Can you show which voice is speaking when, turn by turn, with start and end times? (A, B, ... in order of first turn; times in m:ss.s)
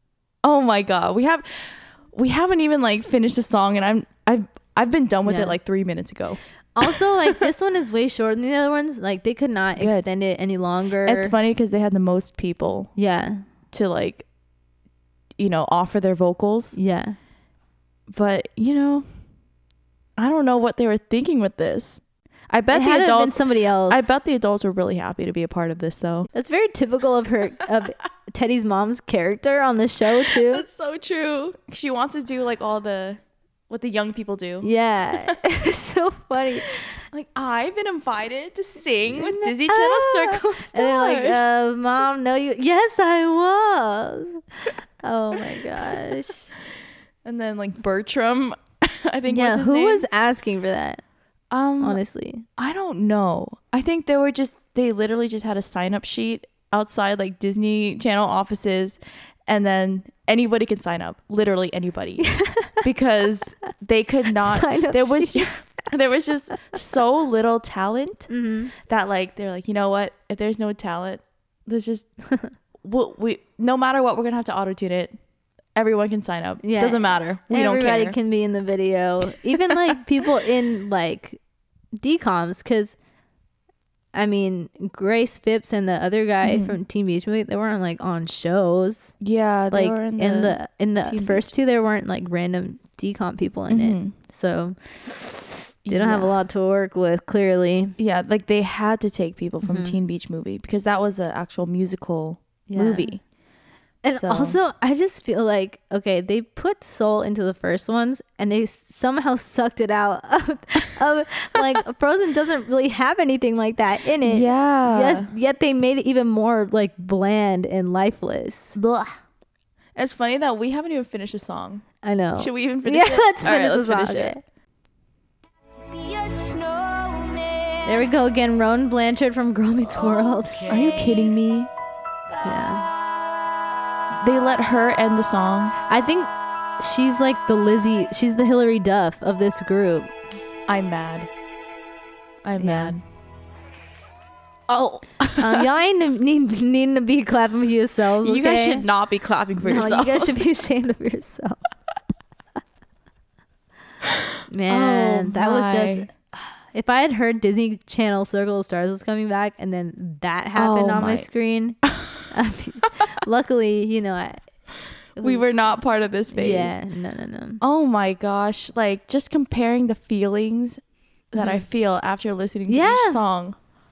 0:00.4-0:07.4 A
0:05.2-0:05.5 B
0:06.8-0:11.3 B
0:09.8-0:10.1 A
0:11.0-0:12.9 A
0:13.0-0:13.4 B
0:13.7-0:14.2 A
0:15.4-0:16.8 A
0:16.7-0:17.2 B
0:18.1-0:19.0 A
0:20.2-0:26.3 A
0:22.7-0:24.1 B
0:26.3-0:30.7 B
0:30.2-0:35.4 A
0:34.6-0:37.0 B
0:37.1-0:41.5 A
0:39.1-0:46.5 B
0:47.2-0:50.0 A
0:49.3-0:51.0 B
0:51.5-0:52.0 A
0:51.8-0:52.4 B
0:52.6-1:12.1 A
1:02.3-1:02.8 B
1:04.4-1:05.4 B
1:08.3-1:08.7 B
1:12.8-1:15.1 A
1:15.7-1:18.2 A
1:16.6-1:21.4 B
1:19.3-1:20.0 A
1:22.0-1:23.0 B
1:24.1-1:29.1 B
1:26.4-1:26.8 A
1:29.2-1:31.5 A
1:29.7-1:38.0 B
1:33.7-1:34.1 A
1:35.8-1:36.3 A
1:38.0-1:43.2 A
1:39.6-1:40.0 B
1:42.7-1:43.1 B
1:44.0-1:58.8 B
1:44.1-1:44.6 A
1:54.2-1:55.3 A
1:58.8-1:59.1 A
2:00.0-2:04.4 A
2:02.0-2:04.4 B
2:05.8-2:08.1 C
2:07.8-2:10.7 B
2:10.0-2:11.2 C
2:10.7-2:11.7 A
2:12.3-2:12.8 C
2:12.4-2:12.9 B
2:14.1-2:15.7 A
2:15.9-2:20.1 B
2:20.7-2:21.3 A
2:22.4-2:23.0 A
2:22.6-2:23.0 B
2:24.7-2:25.7 A
2:25.4-2:28.8 B
2:28.2-2:30.4 A
2:29.6-2:31.6 B
2:34.5-2:44.4 B
2:34.7-2:36.1 A
2:40.5-2:41.3 A
2:45.2-2:45.7 B
2:45.2-2:46.8 A
2:46.3-2:47.6 B
2:47.6-2:50.8 A
2:51.3-2:53.6 A
2:51.4-2:51.6 B
2:52.7-2:53.2 B